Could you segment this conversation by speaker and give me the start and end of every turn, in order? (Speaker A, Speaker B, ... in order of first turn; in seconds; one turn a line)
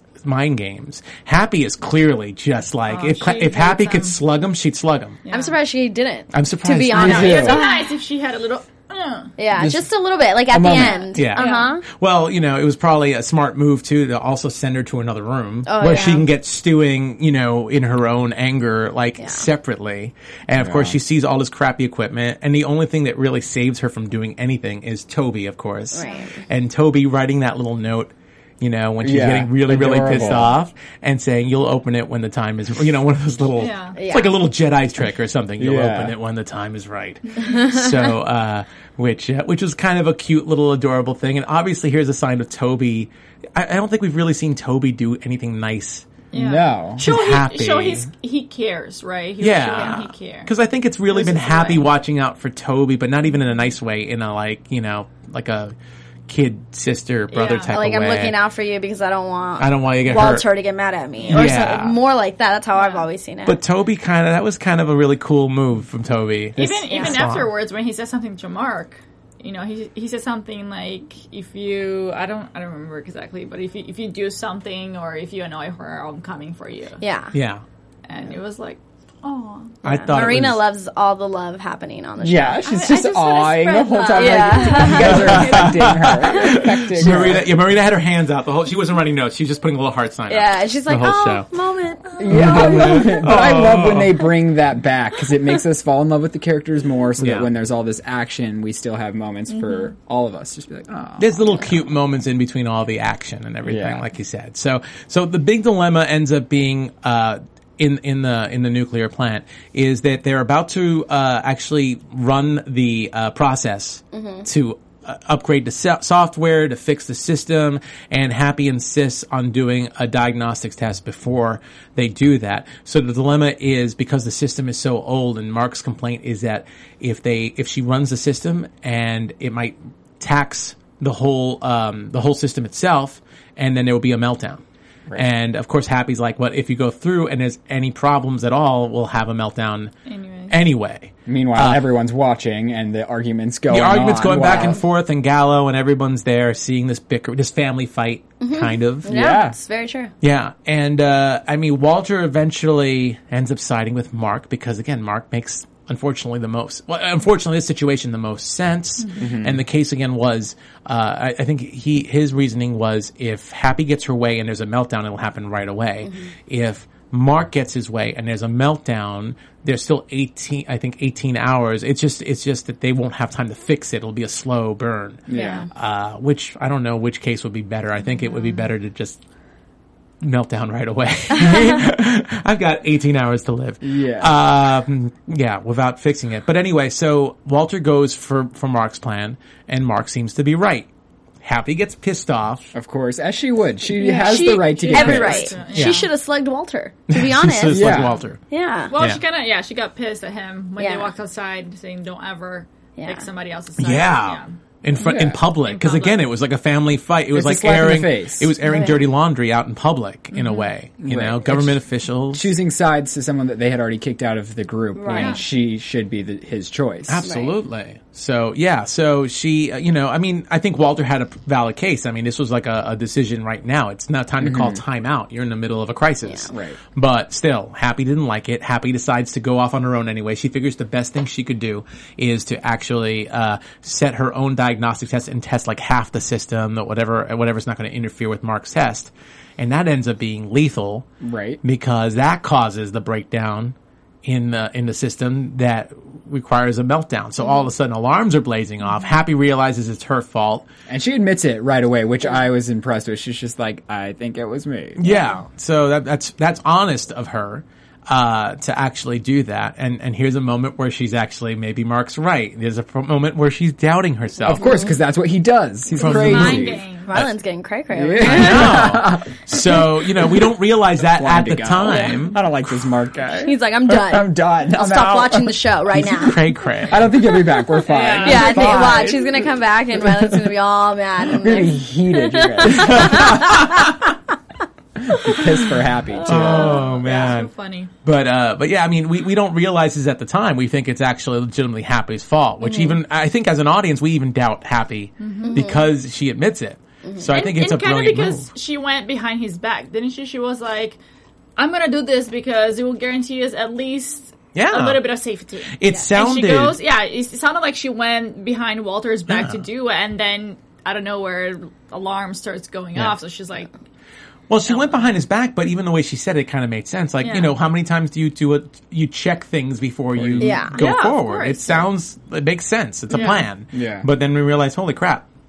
Speaker A: 0.2-5.2
Speaker B: 2.9-4.2
Speaker B: 5.2-5.6
Speaker C: 5.3-7.7
Speaker A: 6.3-7.6
Speaker D: 6.7-7.6
Speaker B: 6.9-9.3
Speaker C: 9.4-11.8
Speaker D: 9.5-9.8
Speaker D: 10.5-11.0
Speaker B: 10.7-11.7
Speaker A: 11.1-46.1
Speaker C: 15.7-16.3
Speaker C: 19.2-19.4
Speaker D: 20.6-21.0
Speaker C: 25.9-26.4
Speaker B: 26.0-26.3
Speaker D: 29.0-30.6
Speaker B: 33.6-34.0
Speaker C: 34.0-34.4
Speaker D: 35.6-36.1
Speaker C: 37.4-38.0
Speaker B: 46.3-50.5
Speaker D: 46.3-47.0
Speaker A: 47.0-48.1
Speaker A: 49.4-55.7
Speaker B: 51.1-51.9
Speaker A: 56.3-58.3
Speaker B: 57.3-57.7
Speaker C: 57.7-63.6
Speaker A: 59.6-60.5
Speaker B: 61.2-61.7
Speaker A: 61.3-62.0
Speaker B: 62.7-63.0
Speaker A: 63.5-67.5
Speaker D: 66.6-66.9
Speaker B: 66.6-77.0
Speaker C: 77.0-77.3
Speaker A: 77.3-77.6
Speaker B: 78.1-79.7
Speaker A: 79.8-80.6
Speaker C: 79.8-85.9
Speaker D: 82.2-87.5
Speaker B: 82.6-83.4
Speaker B: 84.2-85.1
Speaker A: 85.0-91.5
Speaker C: 90.3-93.1
Speaker D: 92.2-101.5
Speaker A: 92.3-94.3
Speaker B: 92.3-93.1
Speaker A: 97.2-97.5
Speaker B: 99.5-99.8
Speaker A: 101.2-134.6
Speaker D: 103.6-104.0
Speaker C: 114.1-114.5
Speaker A: 135.1-139.9
Speaker B: 140.1-140.5
Speaker A: 140.5-141.8
Speaker D: 141.2-144.8
Speaker A: 143.7-149.1
Speaker C: 144.4-144.8
Speaker C: 148.4-150.1
Speaker D: 149.0-149.6
Speaker A: 150.2-179.2
Speaker D: 159.2-159.6
Speaker C: 166.0-166.3
Speaker D: 175.3-175.7
Speaker C: 175.3-175.7
Speaker B: 175.3-175.6
Speaker B: 178.3-178.6
Speaker A: 180.2-190.9
Speaker D: 183.8-184.4
Speaker A: 191.4-192.7
Speaker D: 192.7-195.6
Speaker B: 194.0-196.1
Speaker C: 194.0-198.0
Speaker A: 195.7-196.0
Speaker A: 197.1-198.4
Speaker D: 197.7-198.2
Speaker C: 198.5-198.9
Speaker B: 198.9-204.5
Speaker A: 198.9-199.2
Speaker C: 200.8-201.1
Speaker C: 203.0-203.3
Speaker A: 203.8-212.5
Speaker D: 205.0-205.4
Speaker B: 205.0-206.2
Speaker D: 207.3-208.5
Speaker C: 208.6-209.0
Speaker B: 210.3-210.7
Speaker D: 211.0-211.8
Speaker D: 212.3-217.3
Speaker C: 214.9-215.4
Speaker B: 215.1-215.4
Speaker A: 217.1-241.1
Speaker C: 217.2-217.5
Speaker D: 224.4-224.8
Speaker D: 226.5-226.8
Speaker D: 241.2-241.6
Speaker A: 241.6-250.7
Speaker C: 247.4-247.7
Speaker D: 250.9-255.0
Speaker A: 255.0-264.8
Speaker D: 264.4-266.8
Speaker C: 264.6-264.9
Speaker A: 266.0-267.3
Speaker B: 266.0-267.1
Speaker C: 266.0-268.9
Speaker D: 267.9-270.5
Speaker A: 268.2-272.9
Speaker D: 271.1-276.1
Speaker C: 271.9-272.1
Speaker C: 273.4-276.4
Speaker A: 276.0-277.0
Speaker D: 276.9-280.4
Speaker C: 277.2-283.9
Speaker B: 277.9-279.1
Speaker D: 281.3-283.4
Speaker A: 282.7-284.1
Speaker C: 285.1-285.4
Speaker D: 285.1-286.8
Speaker C: 286.2-287.3
Speaker B: 286.2-287.9
Speaker A: 286.2-287.5
Speaker A: 288.0-298.5
Speaker C: 292.6-293.0
Speaker B: 295.2-295.6
Speaker C: 295.4-295.9
Speaker C: 297.0-297.4
Speaker B: 297.3-301.0
Speaker B: 301.6-313.7
Speaker A: 304.5-305.1
Speaker A: 305.7-306.8
Speaker A: 309.3-309.6
Speaker A: 314.5-325.2
Speaker B: 317.2-317.5
Speaker D: 320.1-320.6
Speaker C: 320.4-320.8
Speaker B: 320.7-321.9
Speaker B: 323.1-323.4
Speaker D: 323.7-324.1